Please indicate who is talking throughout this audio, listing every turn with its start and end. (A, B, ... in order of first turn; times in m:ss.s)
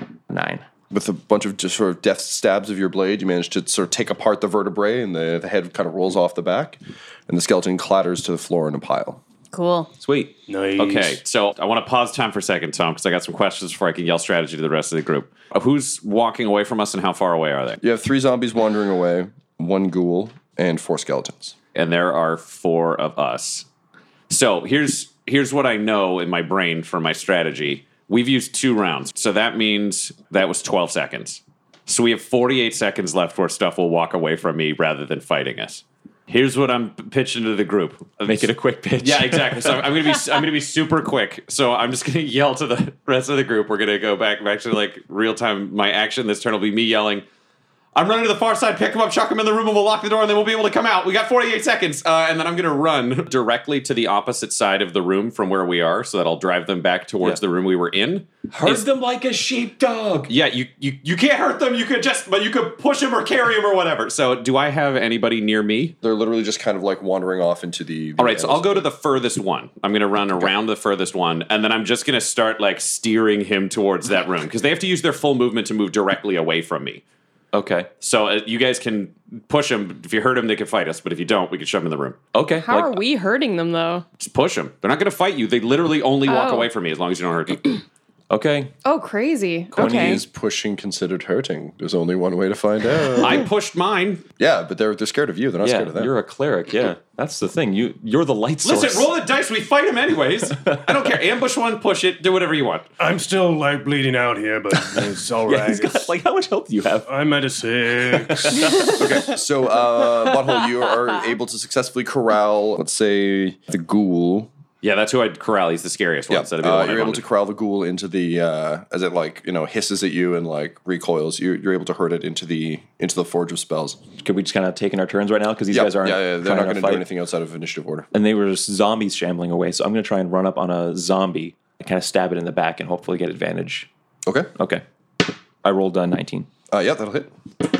0:00.3-0:00.6 A
0:00.9-0:09.2 B
0:09.5-0:09.9 C
0:10.0-0:10.3 A
0:10.5-0:11.2 D
0:10.8-0:17.8 E
0:17.8-0:21.6 B
0:21.8-0:23.7 E
0:24.3-0:38.5 E
0:38.2-0:39.9 A
0:39.0-0:47.2 E
0:48.0-0:58.8 E
0:58.5-1:00.3 A
1:00.3-1:06.0 E
1:06.0-1:08.9 B
1:08.2-1:17.0 E
1:17.5-1:17.9 A
1:18.0-1:22.2 E
1:22.3-1:23.0 A
1:22.6-1:24.0 C
1:24.2-1:27.8 E
1:26.2-1:26.7 C
1:28.3-1:28.7 A
1:28.8-1:30.2 C
1:29.8-1:30.2 A
1:29.8-1:33.4 B
1:33.2-1:34.2 E
1:34.4-1:36.1 B
1:35.6-1:39.1 A
1:38.6-1:42.9 E
1:40.6-1:40.9 A
1:43.0-1:46.1 D
1:44.7-1:47.1 A
1:47.1-1:48.7 D
1:48.0-1:49.1 A
1:48.9-1:54.5 B
1:54.8-1:57.2 E
1:56.3-2:04.0 B
2:04.2-2:07.0 A
2:05.7-2:08.1 B
2:08.1-2:13.9 A
2:14.3-2:14.5 B
2:14.6-2:14.8 A
2:15.6-2:16.5 A
2:16.7-2:17.3 B